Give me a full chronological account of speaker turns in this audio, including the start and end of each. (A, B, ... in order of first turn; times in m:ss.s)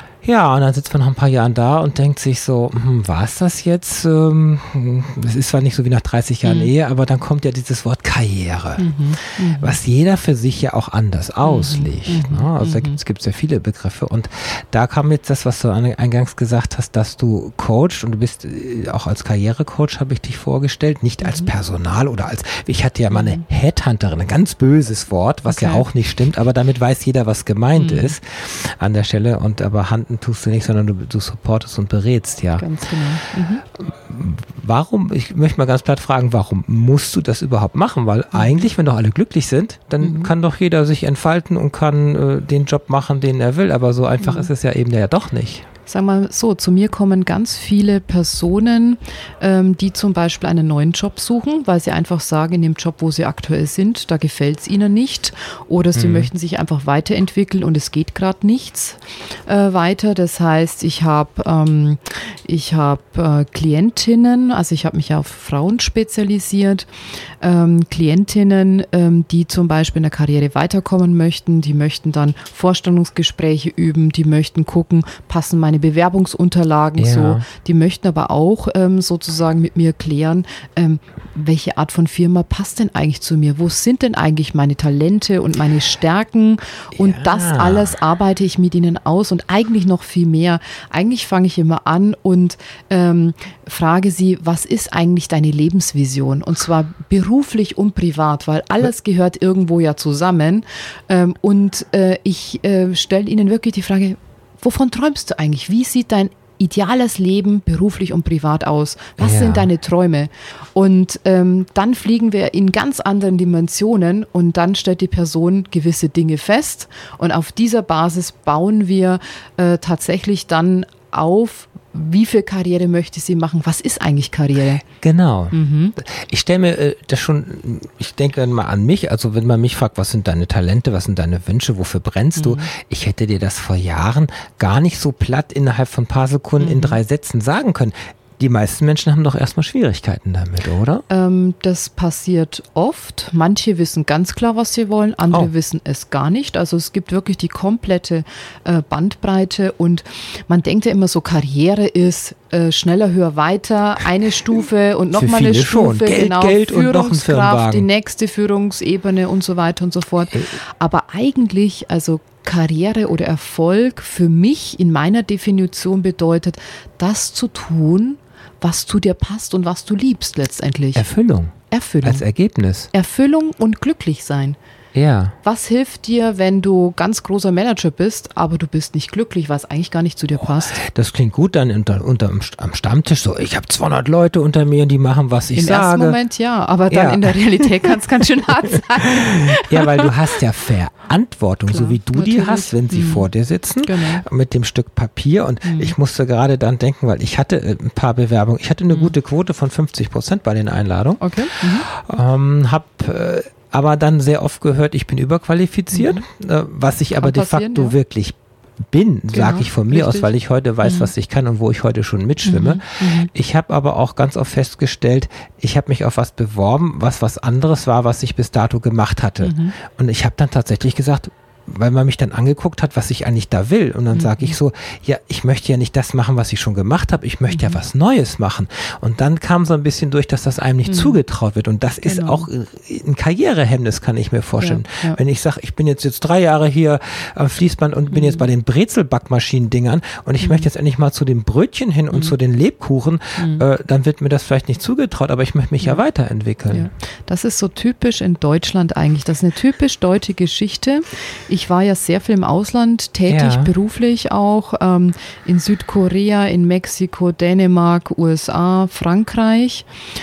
0:00.2-0:08.9 A
0:06.4-0:06.7 B
0:08.8-0:09.8 B
0:09.6-0:32.7 A
0:11.4-0:13.0 B
0:21.2-0:21.5 B
0:23.1-0:23.4 B
0:25.5-0:25.8 B
0:27.8-0:28.1 B
0:32.6-0:33.6 B
0:33.8-0:45.7 A
0:38.3-0:38.6 B
0:40.0-0:40.3 B
0:44.2-0:44.5 B
0:45.9-1:06.9 B
0:55.9-0:56.3 A
1:07.4-2:04.8 B
1:17.0-1:17.4 A
1:26.9-1:27.9 A
1:49.2-1:49.7 A
2:04.8-2:21.0 A
2:05.5-2:06.0 B
2:12.4-2:12.7 B
2:16.6-2:17.0 B
2:21.1-2:51.0 B
2:35.1-2:37.9 A
2:50.9-2:52.9 A
2:51.7-2:52.2 B
2:52.9-2:54.6 B
2:54.9-2:55.4 A
2:55.4-3:00.8 B
3:00.4-3:06.2 A
3:05.5-3:10.1 B
3:06.9-3:08.0 A
3:08.7-4:06.9 A
3:11.7-3:13.3 B
3:13.8-3:14.2 B
3:15.6-3:15.9 B
3:21.2-3:21.9 B
3:25.9-3:26.2 B
3:27.2-3:28.0 B
3:29.3-3:30.3 B
3:30.8-3:31.1 B
3:32.4-3:33.3 B
3:39.4-3:39.7 B
3:44.1-3:44.6 B
3:47.5-3:47.8 B
3:50.8-3:51.2 B
3:52.0-3:52.5 B
3:54.6-3:55.2 B
3:58.1-3:58.4 B
4:00.4-4:00.7 B
4:03.4-4:03.6 B
4:06.7-4:19.8 B
4:13.3-4:13.7 A